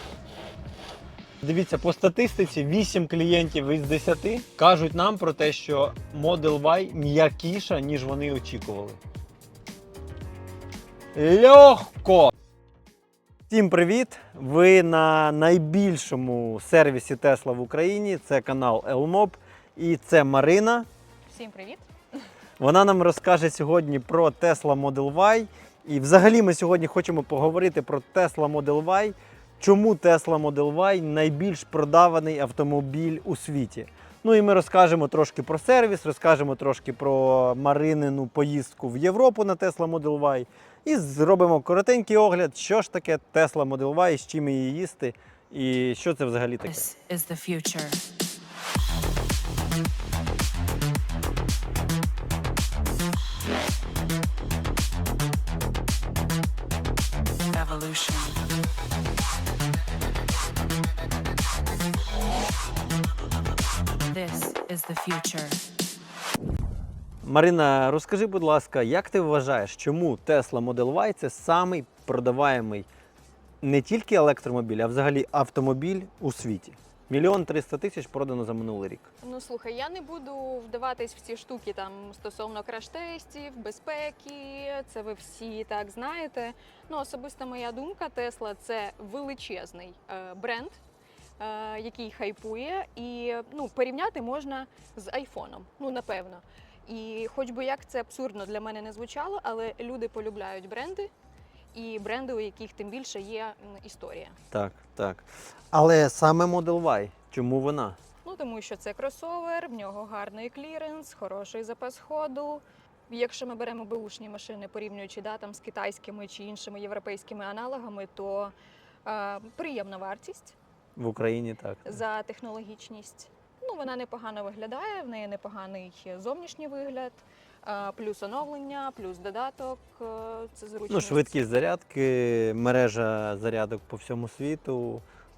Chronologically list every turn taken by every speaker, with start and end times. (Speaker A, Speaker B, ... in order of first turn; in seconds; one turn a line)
Speaker A: 1.4-9.0
Speaker A: 11.1-12.3
Speaker A: 13.5-20.9
Speaker B: 21.3-21.9
Speaker A: 22.6-46.9
Speaker C: 46.7-48.0
Speaker C: 57.5-58.4
Speaker C: 64.0-65.6
Speaker A: 67.2-72.9
Speaker A: 73.6-79.1
Speaker B: 79.2-90.8
Speaker B: 91.4-101.1
Speaker B: 101.7-104.4
Speaker A: 104.5-108.0
Speaker B: 108.2-118.5
Speaker B: 119.0-120.5
Speaker A: 121.0-122.0
Speaker B: 121.8-131.3
Speaker A: 130.9-135.0